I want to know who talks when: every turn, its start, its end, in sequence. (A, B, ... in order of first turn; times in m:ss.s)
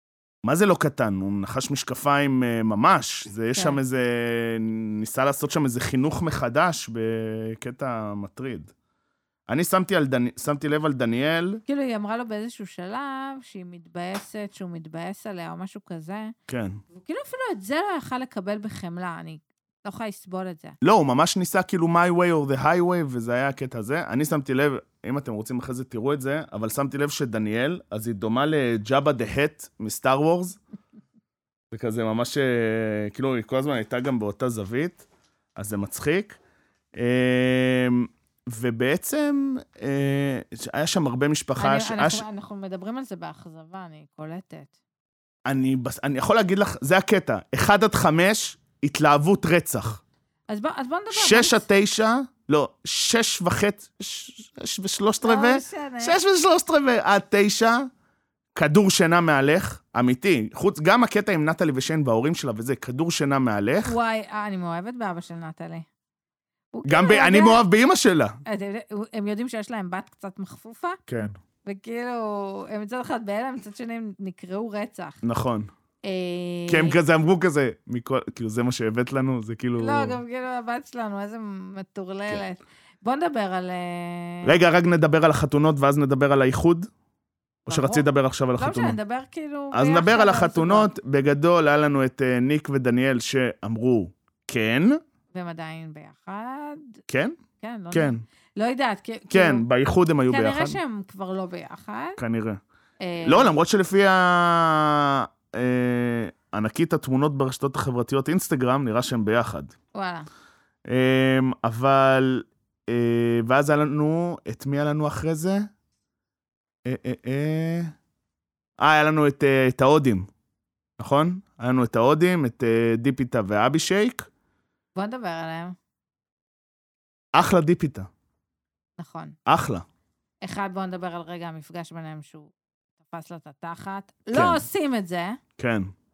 0:00.4-0:08.7 A
0:09.5-0:11.6 A
0:11.7-0:16.3 B
0:16.5-0:16.8 A
0:16.9-0:20.8 B
0:20.8-0:30.6 A
0:31.7-0:35.0 A
0:35.6-0:36.4 A
0:37.0-0:42.2 A
0:41.6-0:44.7 B
0:45.5-0:50.0 A
0:50.5-0:51.6 B
0:51.1-0:57.9 A
0:55.2-0:56.2 B
0:58.6-1:04.0 A
1:03.8-1:05.9 B
1:06.7-1:07.6 B
1:06.8-1:08.4 A
1:08.5-1:11.0 B
1:11.1-1:11.4 A
1:11.6-1:15.2 B
1:15.2-1:15.7 A
1:16.0-1:17.0 B
1:16.7-1:20.2 A
1:19.8-1:24.5 B
1:24.4-1:26.9 A
1:27.7-1:29.0 A
1:27.7-1:28.1 B
1:28.6-1:30.9 B
1:29.7-1:35.0 A
1:35.3-1:37.0 B
1:37.1-1:37.4 A
1:37.6-1:39.6 B
1:37.9-1:38.2 A
1:39.3-1:40.8 A
1:40.3-1:42.2 B
1:42.2-1:42.6 A
1:43.0-1:43.5 B
1:43.2-1:49.7 A
1:49.9-1:50.3 B
1:50.9-1:55.7 A
1:56.8-1:57.9 A
1:58.8-2:00.3 A
2:01.0-2:04.3 A
2:05.0-2:05.8 B
2:07.3-2:08.1 A
2:09.0-2:09.4 B
2:09.5-2:09.9 A
2:10.4-2:15.4 B
2:14.3-2:14.6 A
2:15.6-2:15.9 A